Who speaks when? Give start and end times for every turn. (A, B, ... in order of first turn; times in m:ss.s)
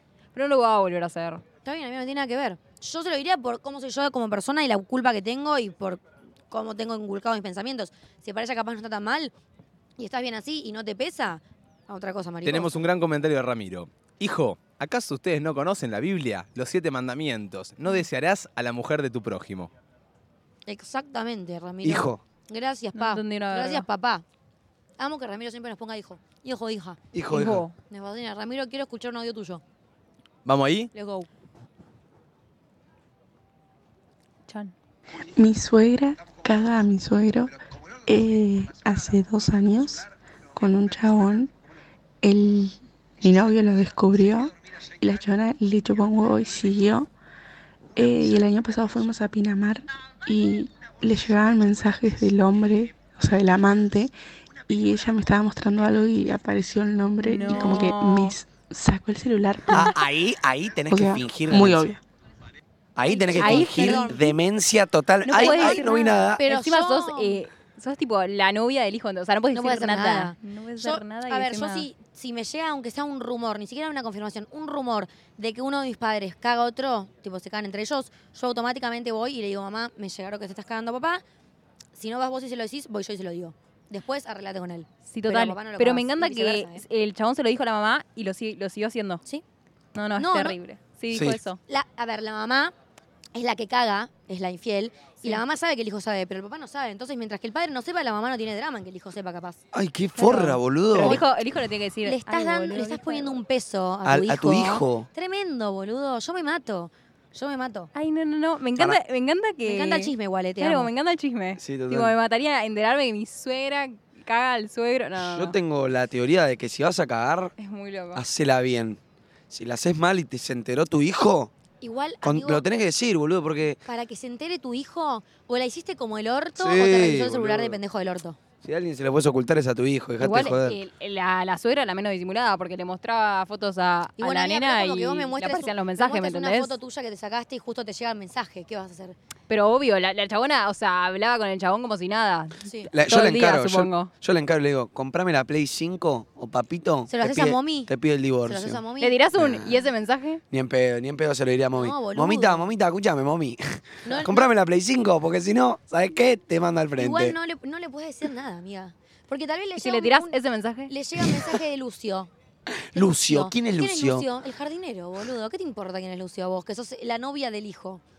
0:00.4-0:01.4 A
0:01.6-0:09.3 B
0:10.0-0:12.8 B
0:12.4-0:19.7 C
0:20.7-0:24.2 B
0:21.8-0:22.2 D
0:23.0-0:23.9 A
0:25.0-0:27.0 B
0:27.1-0:27.7 D
0:27.3-0:27.8 A
0:27.9-0:29.6 B
0:30.4-0:30.9 C
0:30.9-0:31.3 B
0:34.5-0:34.7 A
0:35.4-0:37.5 E
0:38.1-0:41.5 E
0:42.2-0:47.1 E
0:48.0-0:54.1 E
0:54.7-0:59.9 E
0:57.2-0:58.4 A
0:59.7-1:01.9 D
1:00.9-1:02.0 E
1:03.0-1:06.4 D
1:03.1-1:04.2 B
1:03.3-1:04.3 A
1:05.3-1:11.9 A
1:05.3-1:07.4 B
1:09.5-1:21.2 B
1:22.0-1:26.8 B
1:25.1-1:29.2 A
1:30.0-1:31.6 A
1:30.2-1:30.6 B
1:31.1-1:31.4 D
1:31.7-1:32.7 B
1:33.3-1:39.6 B
1:39.7-1:41.2 D
1:40.2-1:43.4 A
1:41.0-1:41.2 B
1:42.0-1:47.9 B
1:44.0-1:45.1 D
1:47.9-1:55.6 A
1:49.6-1:50.9 B
1:51.6-1:52.1 D
1:55.2-1:57.5 D
1:57.6-1:58.2 A
1:58.2-1:59.0 D
1:59.5-2:01.5 D
2:01.8-2:02.7 B
2:02.2-2:03.8 D
2:03.8-2:08.4 B
2:06.6-2:07.8 D
2:08.6-2:10.8 D
2:10.2-2:16.8 A
2:14.2-2:19.2 B
2:19.5-2:24.1 A
2:22.6-2:22.9 B
2:22.9-2:28.8 D
2:27.1-2:27.9 B
2:28.4-2:29.2 B
2:29.0-2:30.4 A
2:29.4-2:29.8 D
2:30.5-2:37.4 D
2:31.8-2:32.7 B
2:34.0-2:34.5 B
2:37.0-2:42.3 B
2:39.8-2:40.9 A
2:42.9-2:44.3 D
2:43.0-2:48.0 B